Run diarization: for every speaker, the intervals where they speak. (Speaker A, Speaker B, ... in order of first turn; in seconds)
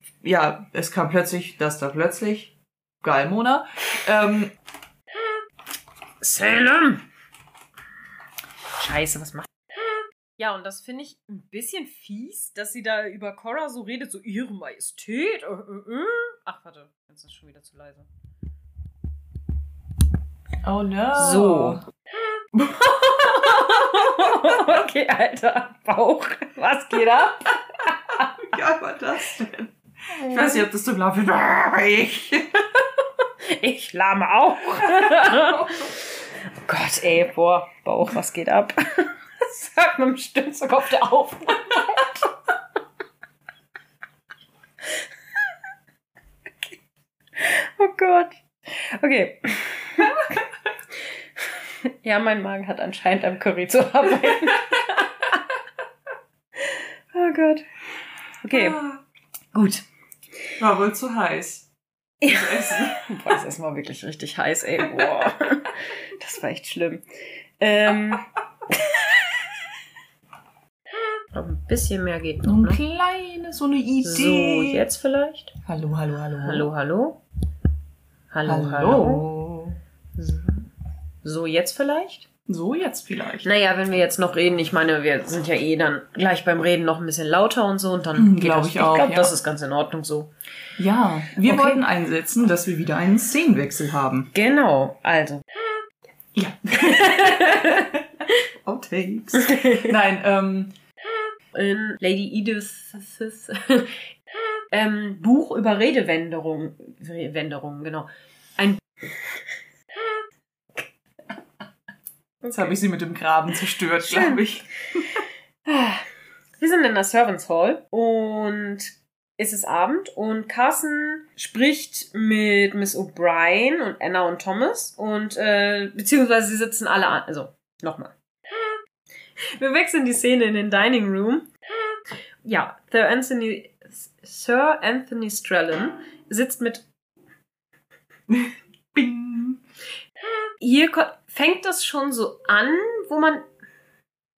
Speaker A: 0.2-4.5, 20.6-21.8, 28.4-32.7, 35.0-35.8, 58.5-59.0, 60.6-61.7, 62.2-63.4, 72.4-74.9, 75.6-76.7, 78.5-79.8, 82.5-83.5, 88.1-89.3, 90.8-94.3, 96.3-100.7, 112.5-115.0, 138.3-139.6
Speaker B: 6.2-7.0, 8.8-9.5, 10.4-18.1, 21.1-21.8, 22.6-28.5, 33.4-42.3, 47.4-50.4, 51.4-55.5, 56.6-57.6, 58.4-58.8, 59.5-59.8, 62.2-67.0, 67.6-69.5, 71.3-72.8, 74.0-75.6, 76.4-77.2, 78.3-79.2, 80.2-80.7, 81.2-82.2, 83.4-90.3, 91.4-91.8, 94.3-95.4, 96.8-98.3, 99.3-99.9, 101.5-104.0, 104.7-108.8, 112.4-112.7, 114.0-114.5, 115.1-116.0, 116.6-128.1, 129.4-131.5, 132.4-136.8, 140.6-143.5